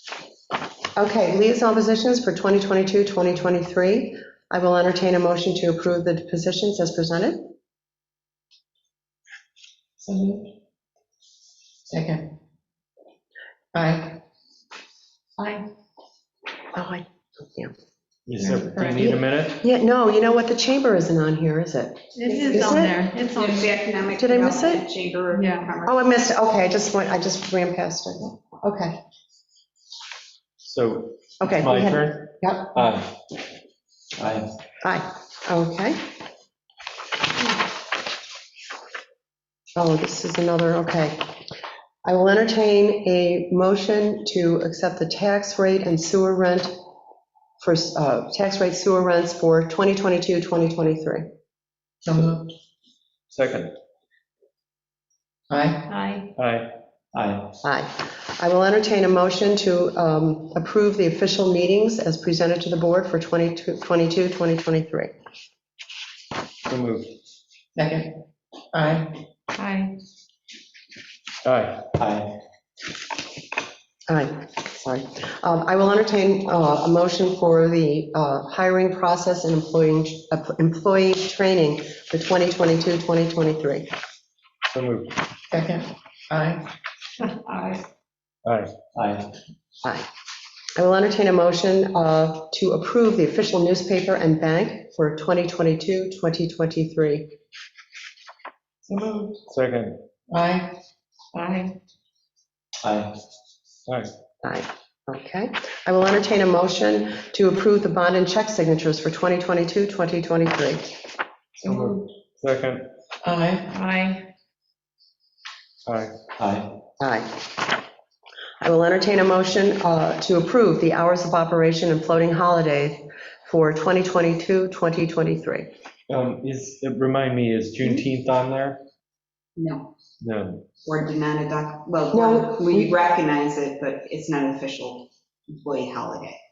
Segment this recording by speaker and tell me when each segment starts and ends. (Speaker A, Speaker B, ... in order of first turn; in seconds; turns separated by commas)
Speaker A: 0.9-7.5, Speaker B: 10.0-10.5, Speaker B: 11.8-12.3, Speaker B: 13.7-14.2, Speaker C: 15.4-15.7, Speaker A: 16.7-17.7, Speaker D: 18.3-19.6, Speaker B: 18.8-19.1, Speaker A: 19.0-23.0, Speaker C: 22.1-23.8, Speaker E: 23.3-26.0, Speaker A: 24.2-24.9, Speaker C: 25.3-25.7, Speaker A: 25.9-29.0, Speaker D: 30.6-33.1, Speaker A: 31.4-32.8, Speaker F: 34.2-34.5, Speaker A: 34.8-36.0, Speaker A: 39.8-41.2, Speaker A: 42.0-46.7, Speaker A: 47.6-51.2, Speaker B: 52.0-52.5, Speaker D: 53.3-53.7, Speaker B: 55.5-55.9, Speaker C: 55.9-56.3, Speaker D: 56.4-56.7, Speaker F: 57.1-57.5, Speaker A: 57.6-65.1, Speaker D: 66.7-67.1, Speaker B: 67.8-68.2, Speaker B: 68.7-69.2, Speaker C: 69.5-70.0, Speaker D: 71.4-71.9, Speaker F: 71.9-72.3, Speaker A: 74.1-83.9, Speaker D: 84.7-85.1, Speaker B: 85.5-86.7, Speaker C: 87.2-87.8, Speaker D: 88.4-88.7, Speaker F: 88.9-89.3, Speaker A: 90.8-97.3, Speaker C: 98.9-99.3, Speaker D: 99.5-100.0, Speaker B: 100.3-100.8, Speaker C: 101.3-101.7, Speaker F: 102.8-103.2, Speaker A: 104.4-110.9, Speaker C: 111.6-112.0, Speaker D: 111.6-112.8, Speaker B: 113.2-113.7, Speaker C: 113.7-114.3, Speaker D: 115.8-116.1, Speaker F: 116.4-116.7, Speaker A: 117.0-117.3, Speaker A: 118.6-125.7, Speaker D: 126.1-128.8, Speaker E: 129.6-129.9, Speaker D: 130.2-130.6, Speaker E: 130.8-136.4, Speaker A: 132.1-132.9